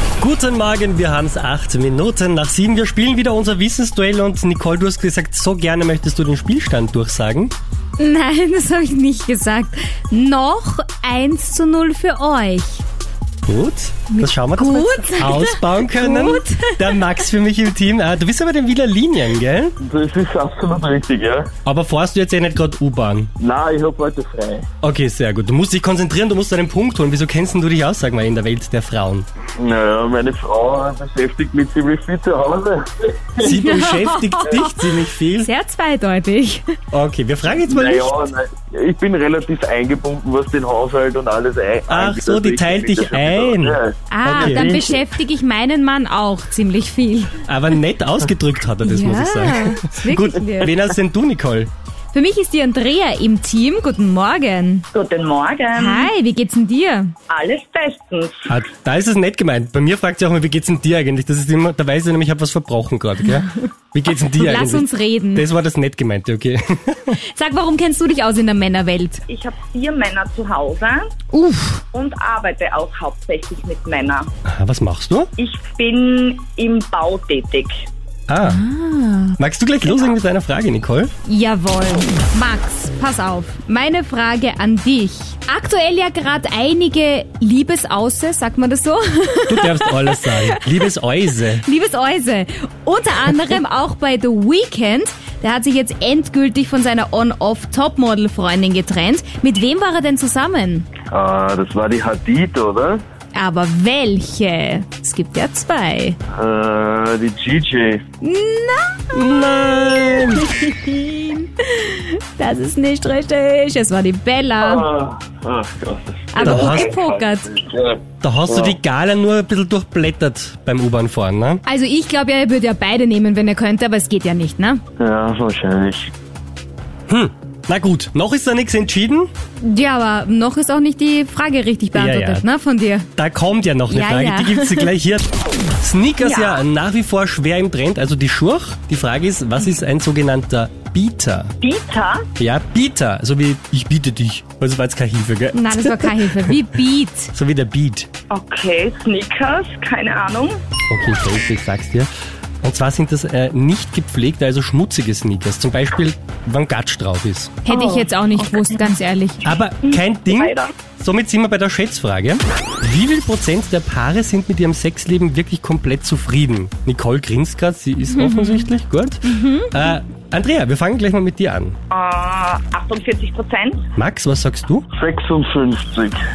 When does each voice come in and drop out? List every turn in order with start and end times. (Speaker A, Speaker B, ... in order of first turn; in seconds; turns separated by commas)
Speaker A: 0.2-7.5, Speaker B: 8.0-12.8, Speaker A: 13.5-19.8, Speaker B: 14.1-17.1, Speaker C: 19.8-21.5, Speaker A: 21.6-23.3, Speaker C: 23.4-24.7, Speaker A: 24.8-29.3, Speaker C: 29.6-33.5, Speaker A: 33.4-35.5, Speaker B: 33.4-36.8, Speaker A: 36.9-38.3, Speaker C: 37.5-45.0, Speaker A: 41.9-44.8, Speaker B: 44.1-47.4, Speaker A: 47.5-51.7, Speaker B: 48.8-50.8, Speaker B: 52.1-54.9, Speaker D: 54.9-56.1, Speaker B: 55.8-57.1, Speaker D: 57.3-58.5, Speaker A: 58.5-67.2, Speaker B: 64.3-65.5, Speaker B: 67.3-69.2, Speaker D: 69.3-71.1, Speaker B: 71.3-71.8, Speaker D: 71.9-74.3, Speaker A: 74.5-75.3, Speaker D: 75.4-77.7, Speaker A: 78.3-78.6, Speaker B: 78.4-79.4, Speaker A: 79.4-81.1, Speaker B: 81.2-90.8, Speaker A: 89.5-91.7, Speaker B: 91.5-100.9, Speaker C: 101.1-103.0, Speaker B: 103.3-106.2, Speaker C: 106.3-108.0, Speaker B: 108.2-109.0, Speaker A: 109.1-110.5, Speaker B: 110.3-114.9, Speaker C: 114.6-118.8, Speaker B: 116.3-117.5, Speaker A: 116.4-117.0, Speaker A: 118.2-121.6, Speaker B: 121.7-124.8, Speaker C: 125.0-126.1, Speaker A: 127.1-129.3, Speaker B: 129.6-133.1, Speaker A: 131.9-132.5, Speaker A: 133.2-135.3, Speaker B: 133.9-134.9, Speaker A: 135.8-141.5, Speaker D: 136.2-136.7, Speaker D: 141.6-142.3, Speaker A: 142.4-148.1, Speaker B: 145.5-147.3, Speaker D: 148.3-150.6, Speaker A: 150.9-152.1, Speaker A: 152.6-157.6, Speaker B: 157.7-159.4, Speaker D: 157.7-158.8, Speaker A: 159.4-171.8, Speaker D: 159.8-160.7, Speaker B: 168.1-168.7, Speaker B: 169.2-170.0, Speaker D: 171.9-173.8, Speaker A: 174.0-174.9, Speaker C: 174.9-176.2